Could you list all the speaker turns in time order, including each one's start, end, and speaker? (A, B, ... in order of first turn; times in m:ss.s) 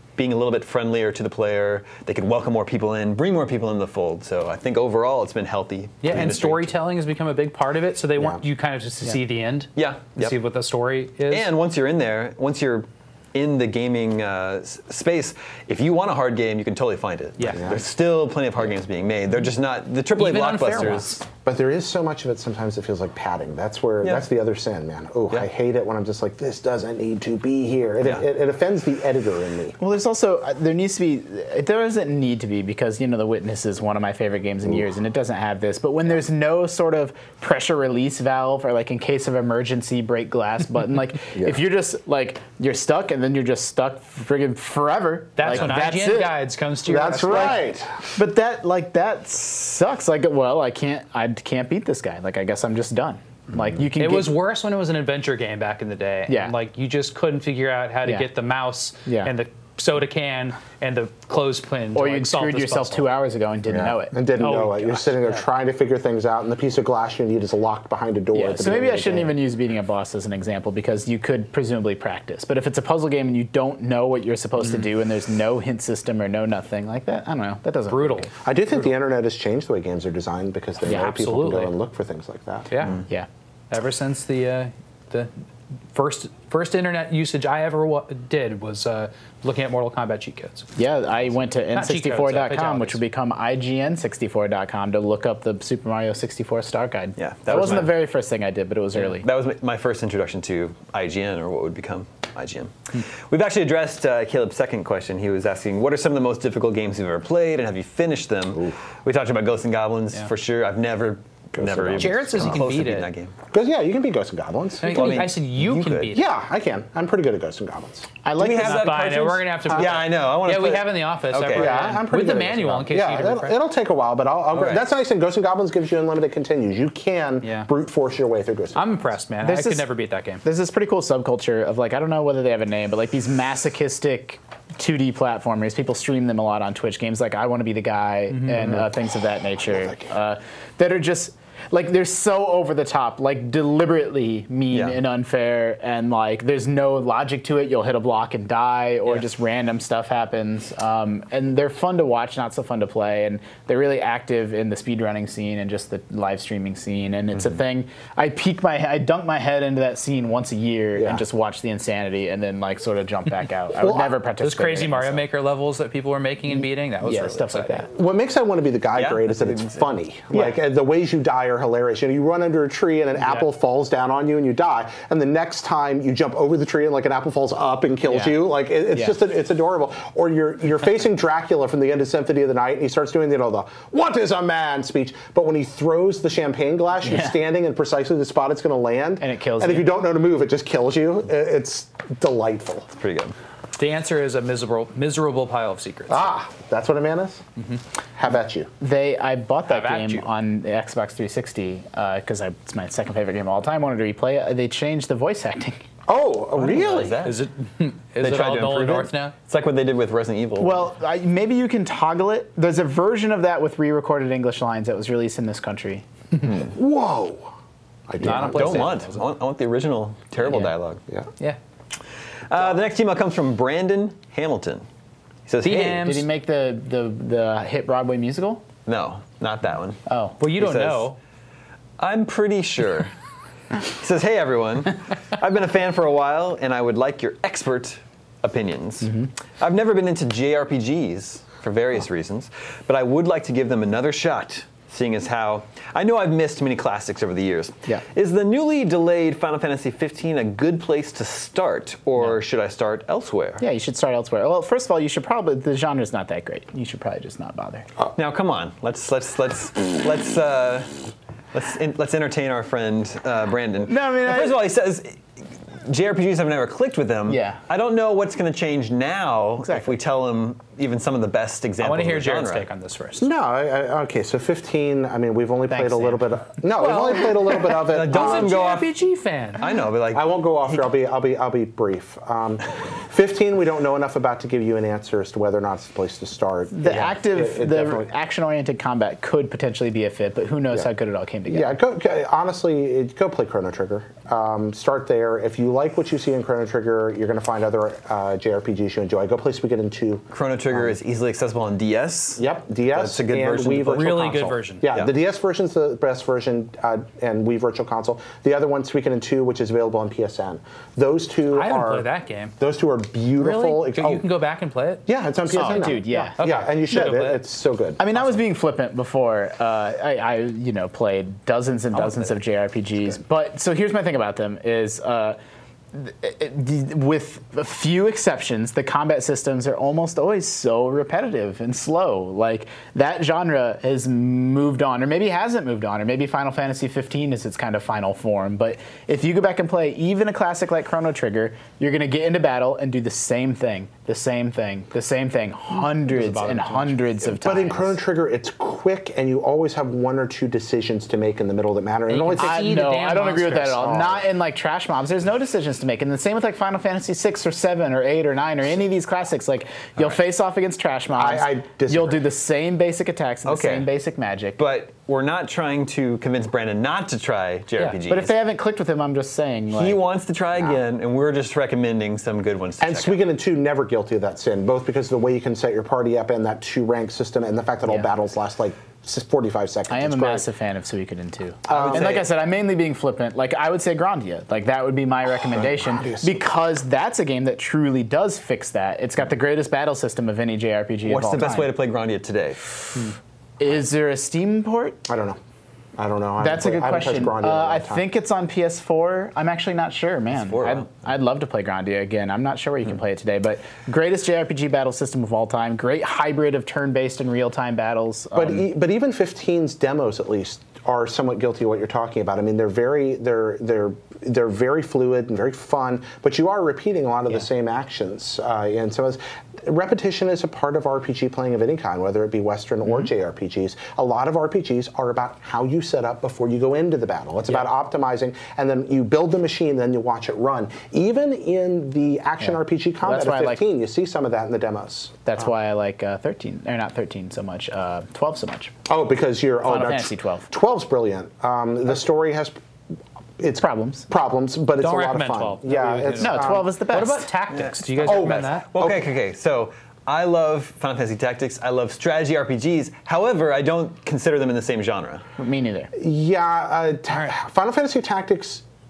0:00.2-0:06.8 A
0:06.0-0:11.5 B
0:09.8-0:10.3 A
0:11.3-0:21.2 A
0:17.4-0:17.7 B
0:17.5-0:17.8 C
0:20.1-0:21.2 B
0:21.4-0:29.8 C
0:29.8-0:46.4 D
0:45.4-0:47.6 B
0:46.8-0:48.0 C
0:47.2-0:54.4 D
0:54.0-1:03.0 B
0:56.3-0:56.5 D
0:58.0-0:58.3 D
0:59.0-0:59.3 D
1:01.9-1:04.5 D
1:03.7-1:09.3 C
1:04.4-1:05.4 B
1:08.3-1:18.3 D
1:17.9-1:18.3 B
1:18.4-1:22.7 C
1:20.8-1:21.7 B
1:22.7-1:23.0 B
1:23.7-1:25.3 B
1:25.9-1:30.7 B
1:30.8-1:39.3 D
1:31.7-1:33.0 B
1:37.2-1:38.0 A
1:38.9-1:53.3 A
1:51.6-1:52.6 C
1:52.0-1:53.1 B
1:53.5-1:55.2 C
1:54.8-1:56.2 B
1:54.8-1:56.1 A
1:56.1-1:58.1 C
1:58.2-1:59.4 D
1:58.4-2:01.9 A
1:58.6-2:03.6 B
2:01.5-2:08.8 C
2:04.5-2:04.8 A
2:07.4-2:07.7 B
2:08.7-2:10.4 B
2:09.4-2:09.9 D
2:10.4-2:45.2 D
2:18.3-2:18.7 B
2:19.6-2:20.1 C
2:24.7-2:25.0 A
2:41.0-2:41.2 C
2:43.8-2:44.1 C
2:44.4-2:47.8 B
2:47.0-2:47.9 D
2:47.9-3:12.9 C
2:48.9-2:49.8 A
2:58.0-2:59.2 D
3:07.0-3:07.4 D
3:09.2-3:09.9 D
3:13.0-3:13.3 A
3:13.8-3:16.3 B
3:16.1-3:17.4 C
3:18.2-3:18.7 C
3:18.8-3:25.8 D
3:19.7-3:20.2 B
3:26.1-3:27.2 C
3:26.5-3:27.4 A
3:27.2-3:29.3 B
3:28.2-3:30.9 A
3:30.6-3:36.0 D
3:36.4-3:37.5 C
3:38.1-3:39.0 C
3:38.2-3:39.2 B
3:38.3-3:41.0 A
3:42.5-3:44.8 A
3:45.5-3:46.1 A
3:45.6-3:46.2 B
3:45.9-3:48.6 D
3:48.8-3:50.0 A
3:50.1-3:50.4 D
3:50.4-3:51.2 B
3:50.5-3:51.1 A
3:52.0-3:53.1 A
3:53.9-4:13.6 A
4:13.6-4:17.9 D
4:18.1-4:20.9 A
4:21.5-4:25.2 A
4:23.9-4:24.6 D
4:25.8-4:32.6 A
4:27.3-4:27.6 D
4:29.6-4:29.9 D
4:31.8-4:33.3 B
4:33.2-4:38.6 C
4:35.7-4:36.3 D
4:36.8-4:39.6 B
4:37.9-4:38.9 A
4:39.6-4:40.2 A
4:40.1-4:48.0 C
4:46.7-4:51.8 D
4:51.5-5:00.9 C
5:00.3-5:04.1 A
5:02.4-5:12.1 C
5:03.9-5:04.8 B
5:11.5-5:12.5 B
5:12.6-5:14.2 C
5:13.4-5:15.0 B
5:15.1-5:18.0 C
5:15.5-5:16.4 D
5:15.6-5:17.4 B
5:18.0-5:25.4 D
5:21.9-5:22.3 B
5:25.9-5:48.0 D
5:45.7-5:47.1 B
5:47.3-5:53.0 C
5:52.1-5:53.9 B
5:52.3-6:04.6 D
5:53.7-5:54.2 C
6:01.1-6:02.2 C
6:03.4-6:03.9 A
6:04.6-6:08.3 A
6:08.1-6:10.0 D
6:09.7-6:13.2 A
6:12.8-6:20.4 C
6:19.9-6:31.7 D
6:21.7-6:22.2 C
6:21.7-6:22.3 A
6:25.5-6:26.4 C
6:31.0-6:32.6 A
6:33.6-6:35.0 D
6:35.1-6:35.4 C
6:36.0-6:38.0 C
6:36.4-6:48.6 D
6:40.3-6:40.9 A
6:48.3-7:15.5 C
7:02.8-7:03.1 D
7:12.4-7:13.6 D
7:15.2-7:18.7 D
7:18.9-7:22.6 C
7:19.6-7:20.5 D
7:23.4-7:26.7 C
7:23.6-7:24.1 D
7:24.8-7:28.7 B
7:26.2-7:27.3 D
7:27.5-7:35.2 A
7:28.0-7:29.1 C
7:35.4-7:35.9 D
7:36.0-7:38.6 C